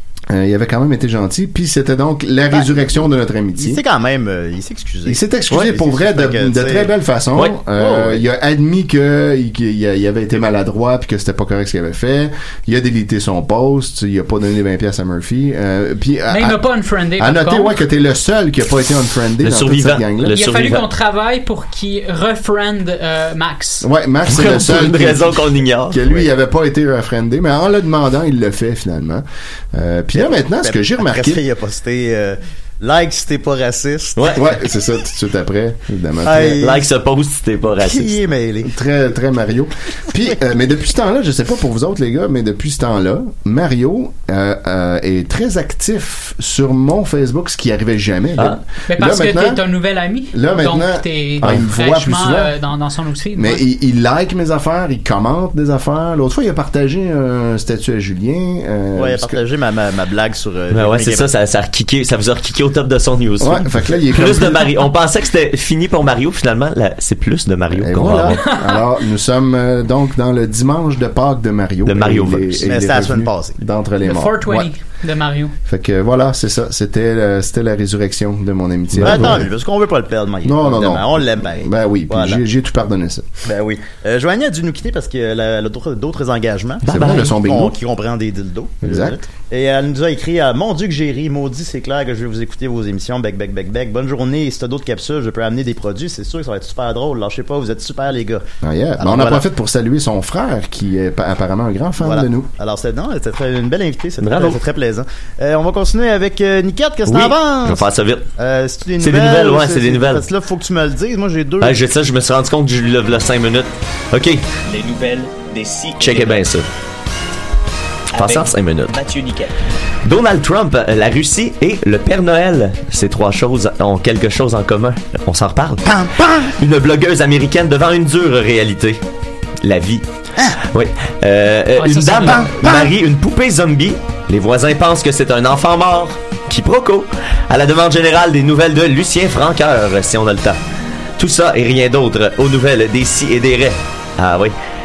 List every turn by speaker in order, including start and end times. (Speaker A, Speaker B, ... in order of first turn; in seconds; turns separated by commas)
Speaker A: 0.3-3.8, Speaker B: 3.6-6.9, Speaker A: 5.1-16.7, Speaker B: 7.8-8.2, Speaker C: 16.3-17.8, Speaker A: 17.2-20.4, Speaker D: 19.4-20.9, Speaker C: 20.3-23.9, Speaker A: 23.8-31.4, Speaker D: 24.3-26.0, Speaker B: 30.1-34.4, Speaker D: 34.2-34.4, Speaker A: 34.4-36.8, Speaker B: 36.2-36.8, Speaker D: 36.6-38.2, Speaker B: 37.8-38.8, Speaker A: 38.7-49.6, Speaker C: 48.9-53.6, Speaker A: 50.3-52.5, Speaker A: 53.4-59.4, Speaker B: 59.0-61.3, Speaker D: 60.7-68.4, Speaker A: 63.4-64.7, Speaker A: 67.7-74.7, Speaker C: 68.5-68.8, Speaker D: 71.9-72.7, Speaker B: 72.7-73.6, Speaker C: 74.0-75.5, Speaker A: 75.7-79.5, Speaker B: 79.0-82.4, Speaker A: 80.4-83.3, Speaker B: 83.5-98.4, Speaker A: 86.9-87.8, Speaker D: 86.9-87.3, Speaker A: 88.8-89.2, Speaker A: 98.6-102.5, Speaker B: 99.0-99.4, Speaker B: 102.0-107.8, Speaker D: 104.2-104.6, Speaker D: 107.1-108.3, Speaker B: 108.4-111.8, Speaker D: 109.0-110.2, Speaker D: 111.6-114.4, Speaker E: 114.7-116.5, Speaker D: 116.0-116.7, Speaker D: 118.1-119.0, Speaker E: 118.1-119.5, Speaker D: 120.0-129.0, Speaker B: 125.8-126.5, Speaker D: 129.6-140.6, Speaker C: 131.8-132.8, Speaker B: 132.4-132.9, Speaker D: 141.2-144.5